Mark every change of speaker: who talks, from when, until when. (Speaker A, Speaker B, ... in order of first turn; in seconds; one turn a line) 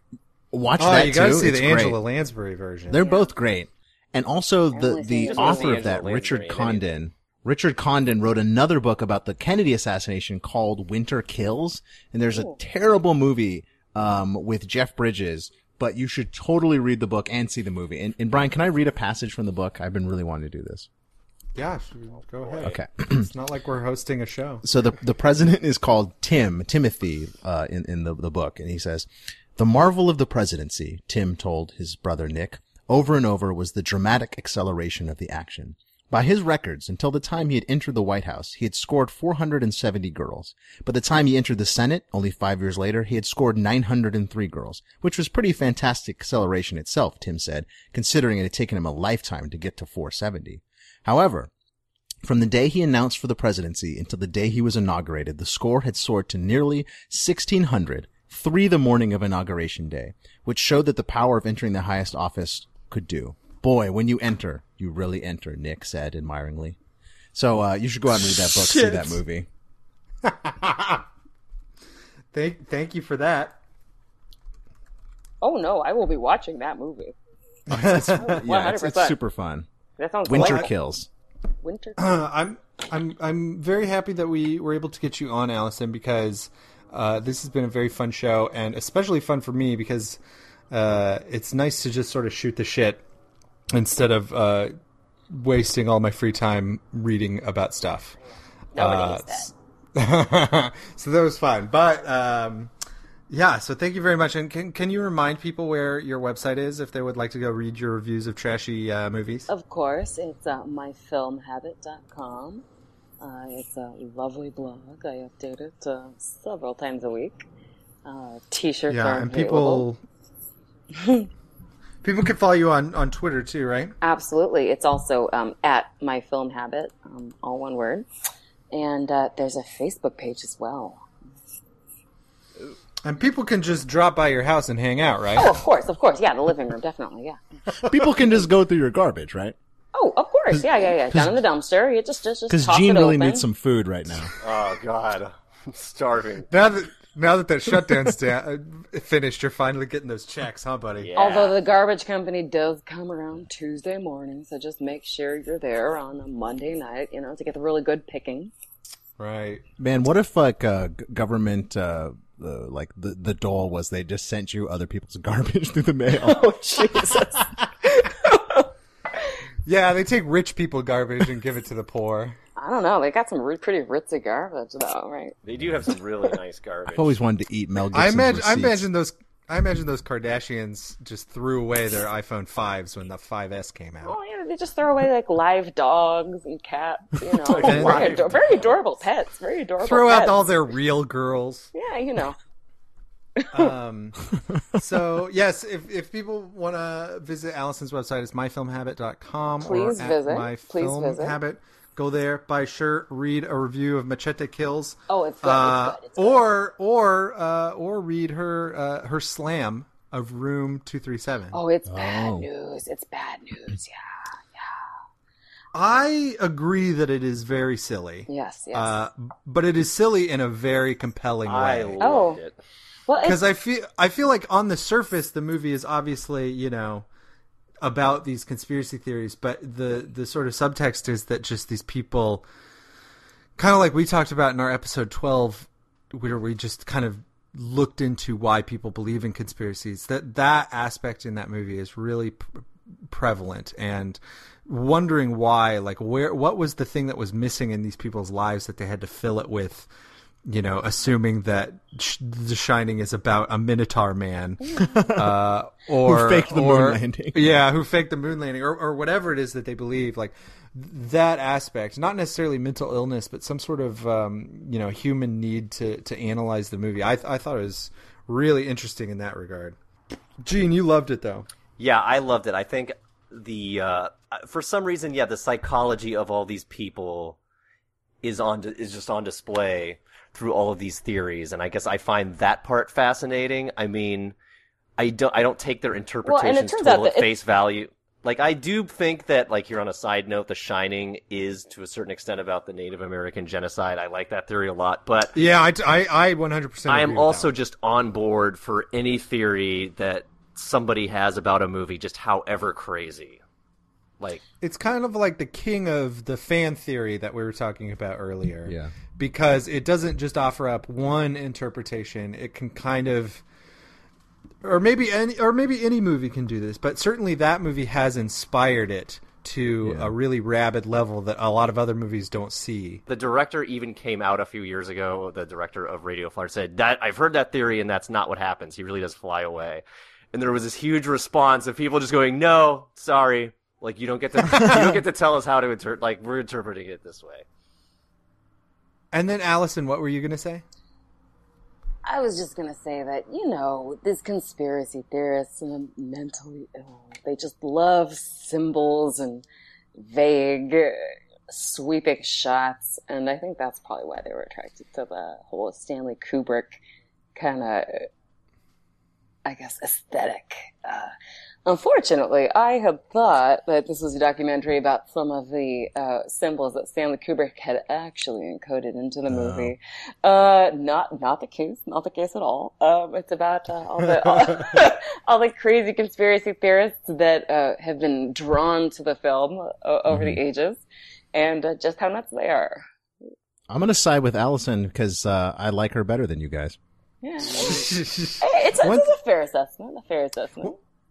Speaker A: 0.5-2.0
Speaker B: 0.8-3.0
Speaker A: 2.9-20.9
Speaker C: 2.9-3.3
Speaker C: 4.7-5.9
Speaker D: 5.3-6.8
Speaker B: 21.5-24.6
Speaker D: 22.4-22.7
Speaker A: 22.6-23.3
Speaker A: 24.6-51.5
Speaker A: 52.2-66.8
Speaker A: 67.3-69.5
Speaker B: 68.2-69.2
Speaker B: 70.2-71.0
Speaker B: 72.3-73.6
Speaker C: 75.4-77.1
Speaker B: 77.7-78.4
Speaker A: 77.7-79.7
Speaker C: 78.1-79.2
Speaker C: 80.0-80.7
Speaker A: 80.2-81.1
Speaker B: 80.3-80.7
Speaker C: 81.6-82.0
Speaker B: 82.0-90.2
Speaker B: 90.7-93.0
Speaker B: 93.7-94.7
Speaker B: 95.3-98.2
Speaker C: 98.7-99.5
Speaker B: 98.8-102.7
Speaker B: 103.3-109.5
Speaker C: 109.5-112.6
Speaker C: 113.2-117.4
Speaker C: 118.0-119.9
Speaker B: 118.9-120.0
Speaker C: 121.0-121.3
Speaker B: 122.0-123.9
Speaker C: 124.0-128.1
Speaker C: 128.7-131.0
Speaker B: 133.0-135.5
Speaker C: 135.3-137.4
Speaker A: 137.8-139.6
Speaker C: 139.9-143.5
Speaker A: 140.5-141.4
Speaker A: 142.5-144.3
Speaker D: 144.4-146.5
Speaker B: 146.5-151.1
Speaker D: 150.9-151.6
Speaker C: 151.2-158.5
Speaker B: 159.2-159.6
Speaker A: 159.8-167.1
Speaker C: 166.2-168.7
Speaker B: 169.6-172.4
Speaker C: 172.6-175.3
Speaker D: 175.4-177.2
Speaker A: 176.9-178.9
Speaker B: 177.9-184.2
Speaker C: 184.0-190.5
Speaker D: 187.4-188.7
Speaker B: 187.6-188.4
Speaker B: 189.8-191.7
Speaker C: 191.7-192.4
Speaker C: 193.4-193.7
Speaker B: 193.5-211.6
Speaker C: 199.6-201.4
Speaker C: 205.1-206.4
Speaker C: 211.5-214.0
Speaker A: 211.9-212.5
Speaker B: 215.7-222.1
Speaker C: 218.3-218.9
Speaker D: 221.4-222.6
Speaker C: 222.0-222.4
Speaker C: 223.1-223.4
Speaker B: 223.2-227.1
Speaker B: 227.8-232.4
Speaker B: 233.6-242.4
Speaker B: 243.1-249.9
Speaker B: 250.4-269.8
Speaker C: 254.6-255.0
Speaker A: 254.8-255.4
Speaker A: 256.0-257.6
Speaker B: 270.4-271.5
Speaker D: 271.8-277.4
Speaker D: 278.2-284.3
Speaker D: 285.0-295.5
Speaker C: 286.2-287.3
Speaker B: 295.3-297.5
Speaker D: 296.9-303.4
Speaker B: 304.6-313.4
Speaker A: 308.6-308.9
Speaker B: 314.6-323.0
Speaker A: 319.8-320.1
Speaker D: 323.1-337.4
Speaker A: 334.4-335.0
Speaker B: 339.1-340.6
Speaker C: 342.0-349.4
Speaker C: 350.0-356.8
Speaker C: 357.3-357.9
Speaker C: 359.4-361.1
Speaker C: 361.6-380.8
Speaker A: 369.3-369.7
Speaker A: 380.1-380.4
Speaker C: 381.3-382.8
Speaker A: 383.7-386.8
Speaker C: 387.2-390.8
Speaker B: 387.6-389.1